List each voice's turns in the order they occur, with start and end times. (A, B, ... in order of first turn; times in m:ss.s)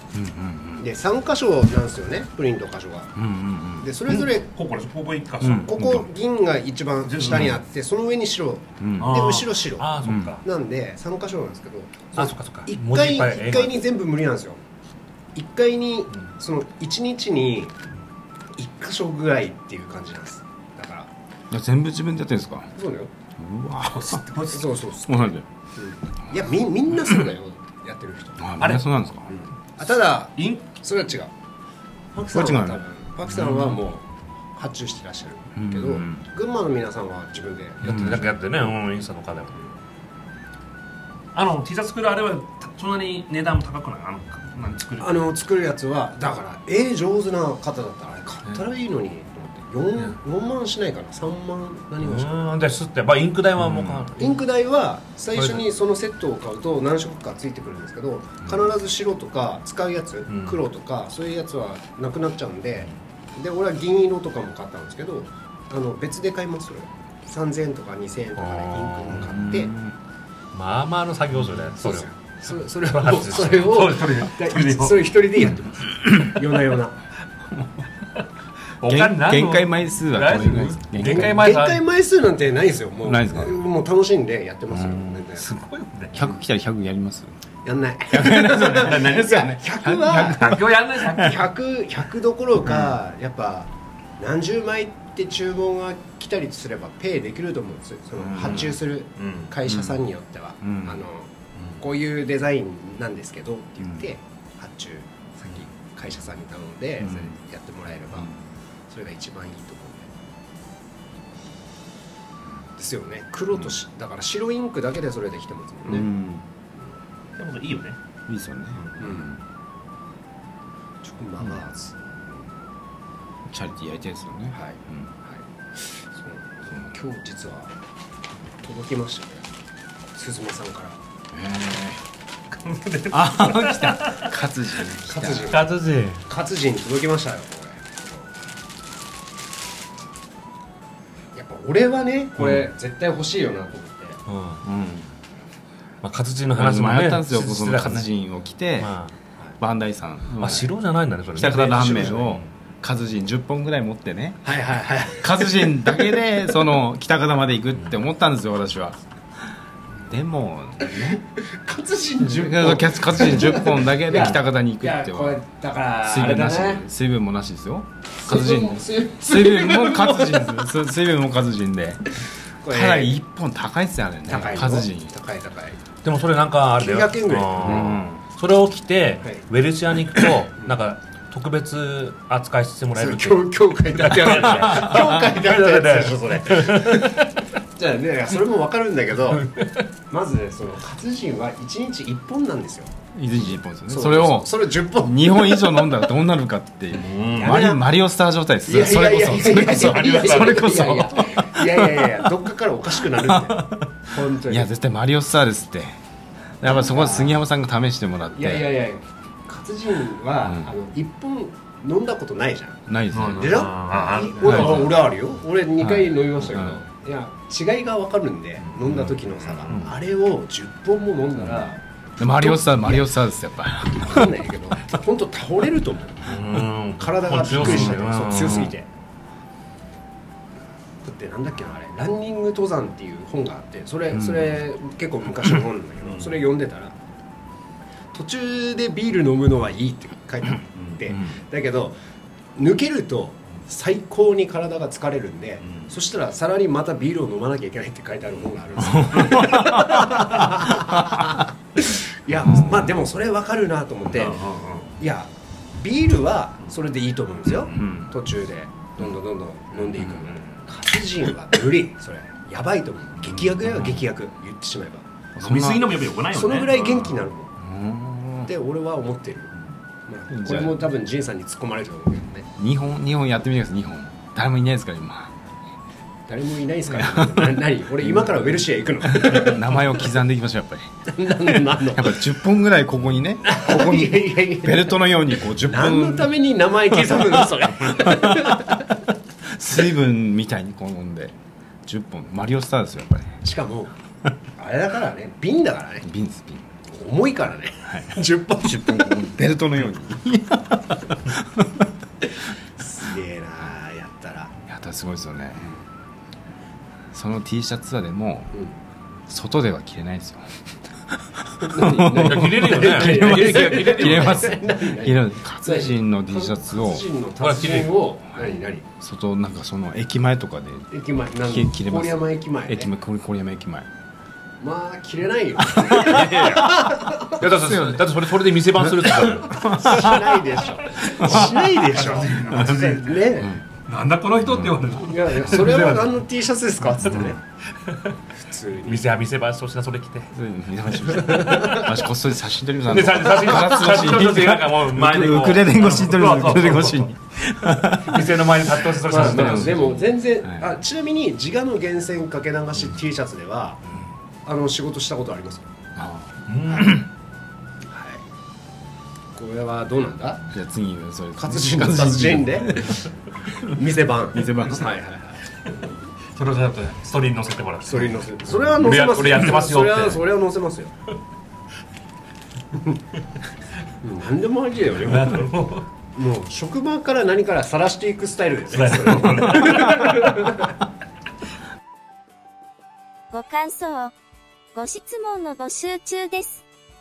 0:00.1-0:00.9 A
0:00.8-0:03.2 B
0:03.2-0:03.9 A
0:03.8-0:04.5 B
0:04.1-0:05.7 C
0:05.4-0:06.1 A
0:05.6-0:09.9 B
0:07.0-0:07.6 C
0:08.8-0:09.1 A
0:09.0-0:10.4 C
0:10.0-0:10.4 A
0:10.4-0:14.6 B
0:12.2-0:13.8 C
0:15.3-0:17.7 B
0:18.6-0:21.1 B
0:21.5-0:22.7 A
0:22.7-0:23.1 B
0:23.4-0:24.2 A
0:23.9-0:24.6 C
0:24.5-0:28.7 B
0:25.1-0:25.5 A
0:28.4-0:29.4 A
0:28.6-0:28.8 C
0:29.3-0:31.3 B
0:30.4-0:30.7 C
0:32.1-0:38.0 B
0:32.3-0:32.8 A
0:33.2-0:33.8 C
0:35.6-0:36.2 A
0:37.8-0:39.6 C
0:37.8-0:38.3 A
0:41.3-0:45.2 C
0:45.0-0:52.5 B
0:52.0-0:54.4 C
0:53.6-0:54.1 A
0:54.2-1:09.7 B
0:55.3-0:55.6 C
1:00.3-1:00.6 C
1:08.4-1:09.3 C
1:09.1-1:09.9 A
1:10.5-1:15.1 C
1:11.8-1:17.0 B
1:18.8-1:21.8 C
1:18.8-1:21.5 A
1:21.0-1:25.5 B
1:23.0-1:23.6 A
1:24.7-1:25.3 A
1:25.4-1:26.2 C
1:26.1-1:27.3 A
1:27.6-1:30.6 B
1:28.1-1:31.3 A
1:28.5-1:29.4 C
1:30.2-1:31.4 C
1:31.1-1:48.3 B
1:38.2-1:38.8 A
1:38.4-1:39.5 C
1:39.6-1:40.1 A
1:40.6-1:41.0 A
1:47.0-1:47.4 A
1:48.1-1:48.4 A
1:48.9-1:50.1 B
1:52.8-1:56.1 B
1:55.9-1:56.5 A
1:57.4-1:58.0 C
1:58.3-1:59.4 A
1:59.0-1:59.4 B
2:01.0-2:02.2 B
2:03.5-2:05.1 A
2:04.5-2:07.7 B
2:08.6-2:09.5 B
2:10.1-2:11.0 B
2:11.3-2:12.0 A
2:12.5-2:14.3 C
2:13.1-2:15.6 A
2:15.0-2:15.7 B
2:15.5-2:16.2 C
2:16.3-2:18.3 B
2:21.3-2:24.2 B
2:24.3-2:24.6 C
2:24.6-2:25.1 A
2:26.0-2:28.1 C
2:26.5-2:28.9 A
2:28.8-2:29.2 C
2:29.6-2:30.7 A
2:30.4-2:32.5 C
2:31.4-2:34.5 A
2:31.7-2:32.2 B
2:34.4-2:36.0 B
2:35.2-2:39.0 A
2:40.0-2:41.2 A
2:40.9-2:46.9 B
2:42.2-2:45.4 A
2:46.0-2:55.1 A
2:48.2-2:50.6 B
2:52.6-2:53.2 B
2:54.3-2:55.8 B
2:56.0-3:07.3 C
2:56.8-2:58.0 B
2:57.6-2:58.2 A
2:59.2-2:59.5 B
3:00.5-3:00.8 B
3:03.0-3:09.5 B
3:09.4-3:09.8 C
3:10.1-3:16.1 B
3:13.2-3:22.5 A
3:16.9-3:17.6 C
3:17.4-3:17.9 B
3:18.7-3:24.7 B
3:19.5-3:20.6 C
3:23.0-3:26.0 A
3:26.6-3:28.8 A
3:26.6-3:27.4 B
3:28.3-3:43.2 B
3:30.4-3:30.8 A
3:32.9-3:33.7 A
3:33.1-3:35.0 C
3:34.4-3:35.1 A
3:35.8-3:36.8 A
3:38.7-3:39.9 A
3:41.4-3:44.5 A
3:43.9-3:48.9 B
3:46.2-3:48.7 C
3:47.5-3:48.0 A
3:51.0-3:57.0 B
3:54.1-3:54.6 A
3:56.0-3:56.3 C
3:58.1-4:02.0 B
4:01.1-4:01.4 A
4:02.6-4:14.4 B
4:08.8-4:11.3 A
4:12.3-4:13.0 A
4:14.1-4:14.9 C
4:15.0-4:25.0 B
4:17.7-4:18.2 A
4:23.6-4:24.1 A
4:25.4-4:26.0 A
4:25.4-4:27.2 C
4:26.3-4:27.5 B
4:27.6-4:28.5 A
4:28.4-4:29.5 B
4:30.1-4:32.5 B
4:30.3-4:30.8 A
4:32.6-4:35.4 A
4:36.3-4:40.1 B
4:36.9-4:46.4 A
4:41.1-4:42.2 B
4:43.4-4:48.9 B
4:47.1-4:48.8 A
4:49.5-4:51.4 A
4:51.9-4:53.4 A
4:53.4-4:53.9 B
4:54.6-4:56.1 B
4:56.0-4:56.7 A
4:56.9-4:59.3 B
4:57.9-5:01.9 A
5:02.8-5:04.6 B
5:04.7-5:05.7 A
5:07.1-5:08.6 A
5:09.3-5:10.6 A
5:11.3-5:17.1 A
5:11.6-5:18.8 B
5:12.2-5:14.4 C
5:17.4-5:18.0 C
5:18.3-5:20.9 A
5:20.9-5:22.9 B
5:21.4-5:23.9 A
5:24.6-5:27.5 B
5:25.6-5:26.9 A
5:26.2-5:26.7 C
5:27.4-5:30.1 C
5:27.5-5:28.1 A
5:28.8-5:30.4 A
5:29.6-5:33.6 B
5:31.0-5:33.3 C
5:31.2-5:31.7 A
5:33.9-5:36.2 C
5:34.4-5:35.0 A
5:35.0-5:37.4 B
5:37.0-5:38.2 C
5:38.3-5:39.1 B
5:38.9-5:40.3 C
5:40.3-5:48.3 A
5:41.1-5:42.0 B
5:42.9-5:47.1 C
5:48.0-5:49.8 C
5:49.1-5:53.8 B
5:49.1-5:50.7 A
5:54.4-5:55.7 B
5:56.0-5:57.0 A
5:56.5-5:57.0 C
5:57.9-5:58.2 B
5:59.3-6:00.5 B
6:00.5-6:03.1 A
6:01.4-6:03.0 B
6:03.6-6:05.4 B
6:04.3-6:04.9 A
6:06.3-6:08.1 C
6:07.9-6:10.9 B
6:08.6-6:10.2 C
6:14.0-6:15.5 B
6:15.0-6:15.9 C
6:16.1-6:20.7 B
6:18.7-6:20.3 C
6:23.3-6:24.1 D
6:24.8-6:26.6 D